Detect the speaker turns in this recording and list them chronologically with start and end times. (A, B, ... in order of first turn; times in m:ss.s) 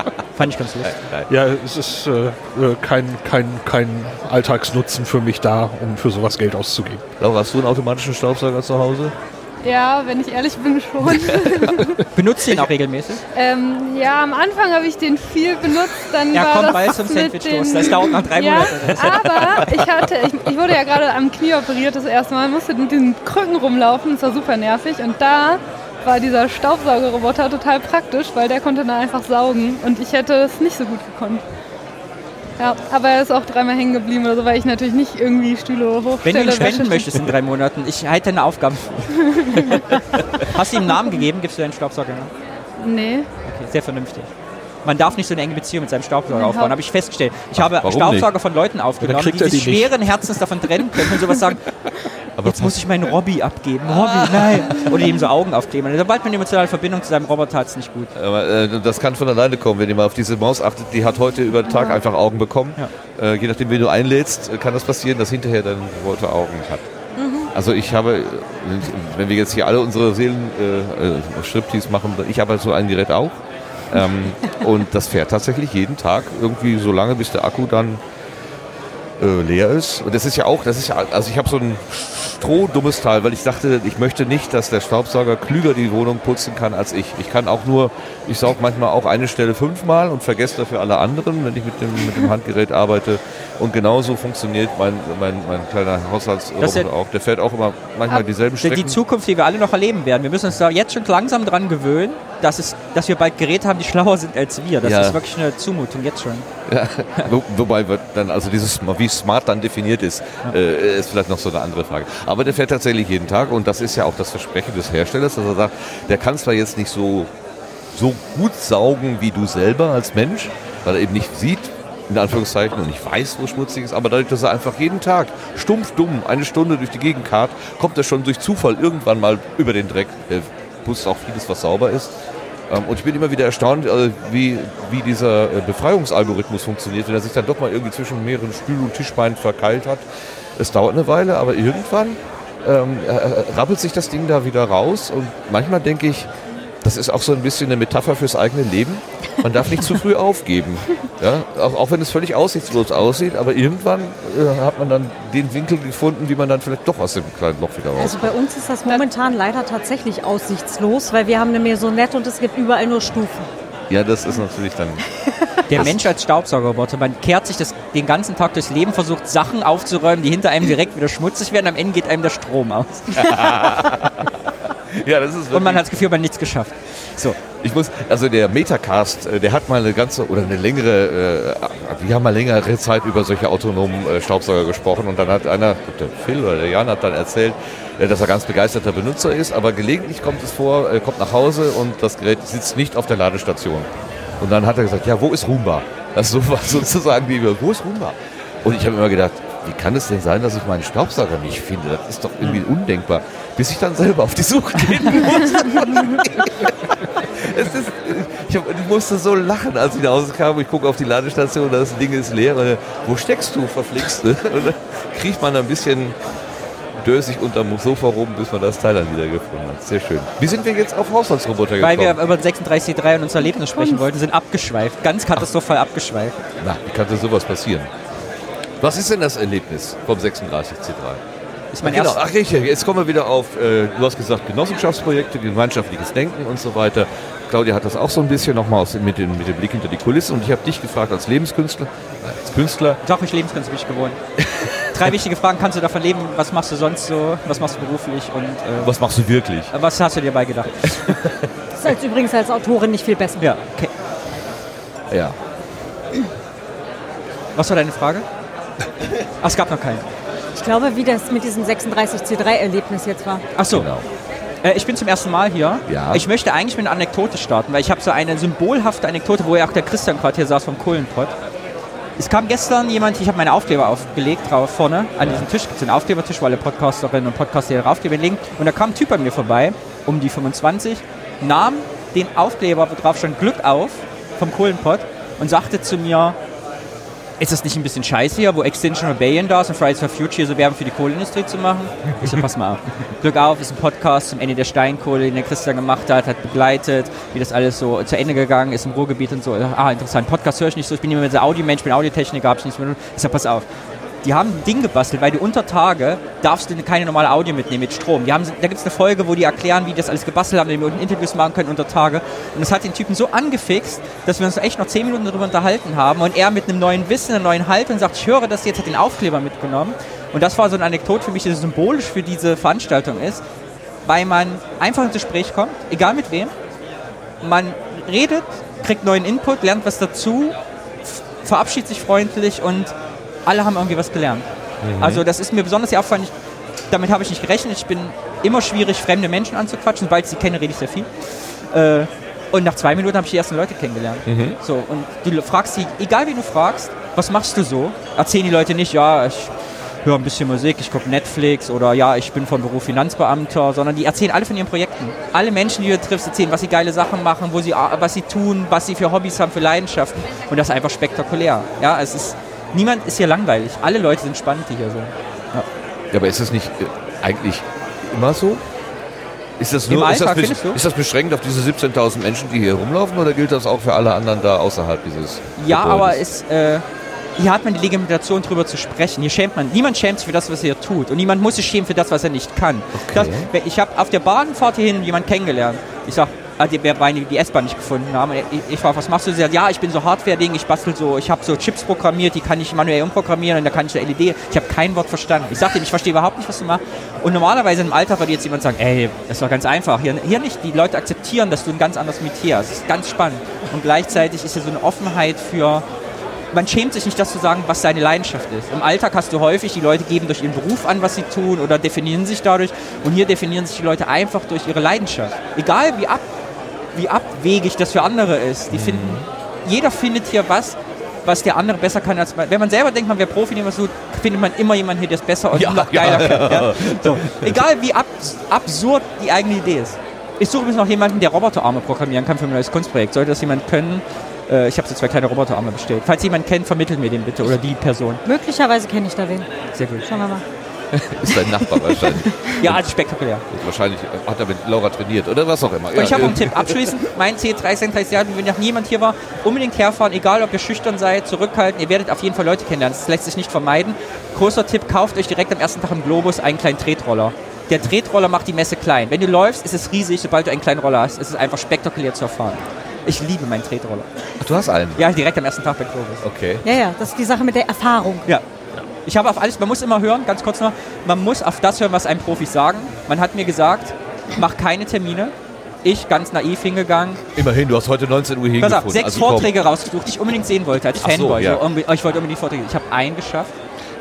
0:00.3-0:00.9 A
0:00.8-0:01.3 B
0:01.3-0:07.0 C
0:07.2-0:09.1 B
0:09.6-0:12.0 D
0:11.1-0:11.6 B
0:12.1-0:13.2 A
0:13.3-0:31.4 D
0:16.3-0:19.6 A
0:19.0-0:19.8 B
0:32.6-0:37.2 D
0:36.2-0:39.8 A
0:39.3-0:39.8 D
0:40.4-0:42.3 A
0:42.8-0:43.3 D
0:43.4-0:44.3 A
0:44.8-0:51.7 A
0:46.3-0:46.7 D
0:47.6-0:48.3 B
0:49.0-0:50.4 C
0:52.4-0:52.8 B
0:52.4-0:58.1 A
0:53.9-0:54.9 B
0:58.1-1:06.9 B
1:07.2-1:07.5 E
1:07.5-1:18.0 B
1:19.2-1:39.0 B
1:36.6-1:36.9 A
1:38.6-1:46.5 A
1:44.8-1:45.2 B
1:46.7-1:57.3 B
1:57.9-2:12.1 B
2:12.7-2:20.0 B
2:20.6-2:26.3 B
2:26.8-2:38.3 B
2:38.0-2:43.5 E
2:43.9-2:45.0 B
2:45.7-2:53.7 A
2:45.7-2:46.1 B
2:53.1-2:54.3 B
2:54.9-2:56.0 B
2:55.5-2:57.4 A
2:57.6-3:13.9 B
3:14.4-3:36.2 B
3:37.0-3:42.2 B
3:41.8-3:46.4 A
3:43.6-3:44.0 E
3:46.6-3:47.9 B
3:48.8-3:51.2 B
3:51.7-3:52.2 A
3:51.8-4:03.0 B
4:03.0-4:04.2 A
4:04.4-4:05.1 B
4:04.9-4:08.9 A
4:08.8-4:09.7 B
4:09.7-4:11.1 A
4:11.0-4:11.4 B
4:11.8-4:13.5 E
4:13.4-4:13.9 A
4:15.1-4:15.4 B
4:17.6-4:18.2 A
4:19.4-4:20.0 A
4:20.5-4:23.4 E
4:23.6-4:23.9 A
4:23.7-4:24.0 B
4:24.6-4:31.3 A
4:25.9-4:26.3 B
4:32.2-4:46.4 A
4:35.2-4:35.4 B
4:47.4-5:03.6 A
5:04.2-5:23.4 A
5:24.0-5:26.5 A
5:27.4-5:32.9 A
5:33.4-5:34.4 A
5:34.8-5:35.2 B
5:35.0-5:36.3 A
5:36.9-5:41.1 A
5:41.7-5:49.5 A
5:44.3-5:44.6 B
5:50.0-6:05.6 A
6:06.1-6:08.6 B
6:09.6-6:16.2 B
6:09.9-6:10.8 A
6:15.6-6:16.8 A
6:17.4-6:45.8 A
6:22.9-6:23.5 B
6:46.5-6:56.2 A
6:56.9-7:18.2 A
6:58.7-6:59.2 B
7:05.5-7:07.6 B
7:18.2-7:19.5 E
7:19.7-7:20.1 A
7:20.0-7:20.4 E
7:20.9-7:22.8 B
7:21.3-7:22.6 E
7:22.6-7:23.4 A
7:23.5-7:26.8 B
7:25.9-7:44.1 A
7:44.4-7:45.0 B
7:45.0-7:46.2 A
7:46.2-7:46.6 B
7:46.6-7:48.3 E
7:49.0-7:55.3 A
7:55.8-7:57.2 A
7:57.4-7:59.5 B
7:58.6-8:03.5 A
8:01.0-8:01.6 B